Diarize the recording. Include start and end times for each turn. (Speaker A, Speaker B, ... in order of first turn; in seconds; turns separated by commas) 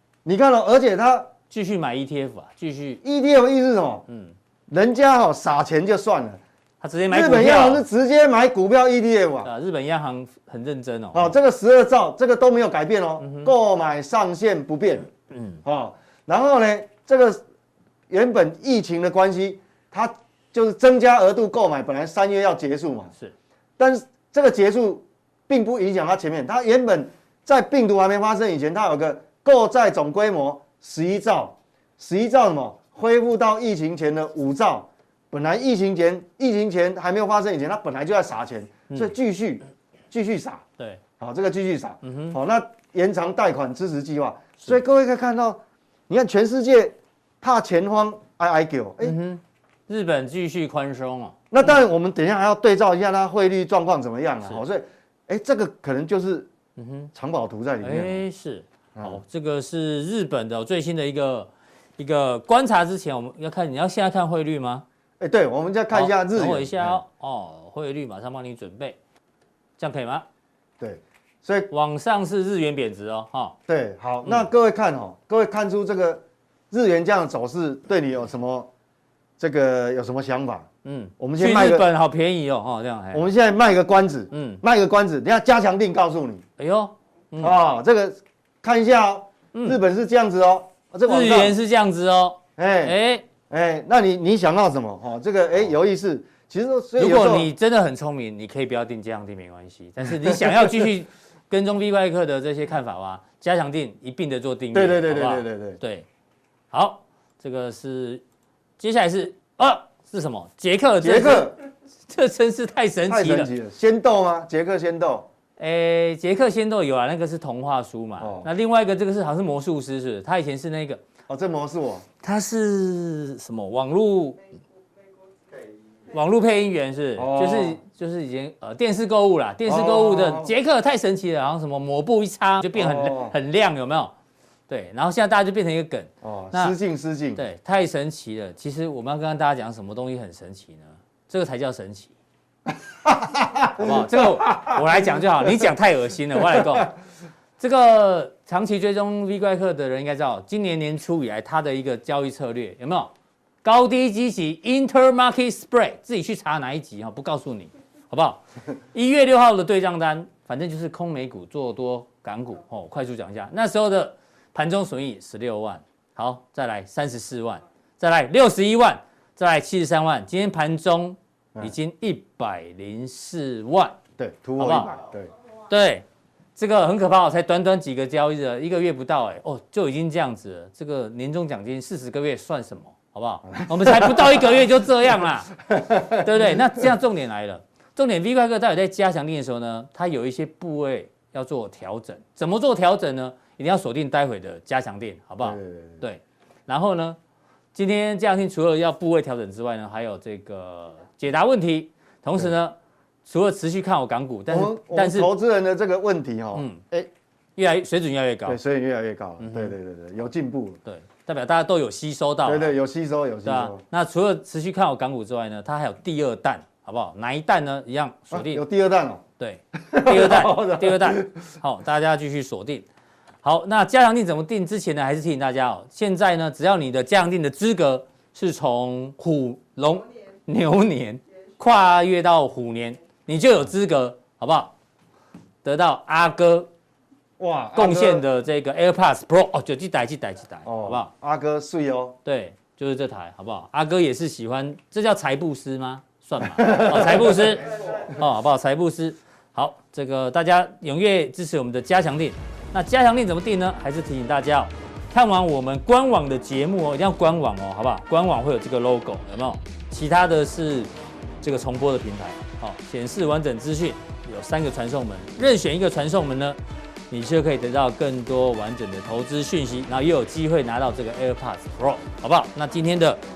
Speaker A: 0.2-1.3, Speaker B: 1.5-3.0, Speaker A: 3.0-4.0, Speaker B: 4.1-4.3, Speaker A: 4.7-6.4, Speaker B: 6.8-7.8, Speaker A: 7.1-9.5, Speaker B: 9.4-11.3, Speaker A: 11.1-15.1, Speaker B: 13.2-13.5, Speaker B: 15.3-15.6, Speaker A: 15.6-17.4, Speaker A: 18.1-23.1, Speaker A: 23.8-40.6, Speaker A: 41.2-49.2, Speaker B: 42.0-42.4, Speaker B: 49.0-51.7, Speaker A: 51.5-56.5, Speaker B: 56.8-57.1, Speaker A: 57.1-58.2, Speaker B: 57.8-64.8, Speaker A: 65.2-67.0, Speaker B: 65.9-69.0, Speaker B: 69.8-70.2, Speaker A: 70.8-71.7, Speaker B: 71.7-73.5, Speaker A: 73.7-78.7, Speaker A: 79.4-80.7, Speaker B: 80.8-83.2, Speaker A: 81.2-81.9, Speaker A: 83.1-86.4, Speaker B: 84.3-84.6, Speaker B: 86.6-87.5, Speaker A: 87.4-91.5, Speaker B: 89.5-89.8, Speaker B: 91.1-93.2, Speaker A: 92.6-93.0, Speaker A: 93.5-97.5, Speaker B: 97.0-106.0, Speaker A: 100.2-100.8, Speaker A: 104.7-105.8, Speaker B: 106.7-108.2, Speaker B: 108.8-113.5, Speaker A: 111.0-111.5, Speaker A: 113.1-115.3, Speaker B: 115.6-121.0, Speaker A: 118.2-118.5, Speaker A: 121.3-122.0, Speaker B: 122.2-124.4, Speaker B: 126.1-134.1, Speaker A: 127.2-127.8, Speaker A: 129.7-130.5, Speaker A: 132.7-133.3, Speaker B: 134.7-136.8, Speaker A: 136.2-137.4, Speaker B: 137.3-142.1, Speaker A: 143.0-145.0, Speaker B: 143.7-146.9, Speaker B: 147.6-153.1, Speaker B: 153.6-174.0, Speaker A: 174.2-175.3, Speaker B: 174.6-174.9, Speaker B: 175.7-176.0, Speaker B: 176.6-197.2, Speaker A: 183.6-184.4, Speaker A: 185.7-186.2, Speaker A: 195.4-196.0, Speaker B: 197.7-205.3, Speaker A: 204.5-207.1, Speaker B: 206.5-206.8, Speaker B: 207.6-208.6, Speaker A: 208.4-210.8, Speaker B: 209.4-209.7, Speaker B: 210.8-212.7, Speaker A: 212.4-213.8, Speaker B: 213.4-218.6, Speaker A: 218.3-219.2, Speaker B: 219.4-222.9, Speaker A: 219.8-221.3, Speaker B: 223.4-234.7, Speaker B: 235.6-236.7, Speaker A: 237.4-238.2, Speaker B: 237.8-241.1, Speaker A: 240.6-242.2, Speaker B: 242.2-260.9, Speaker A: 246.6-247.4, Speaker B: 261.4-266.6, Speaker B: 267.1-273.2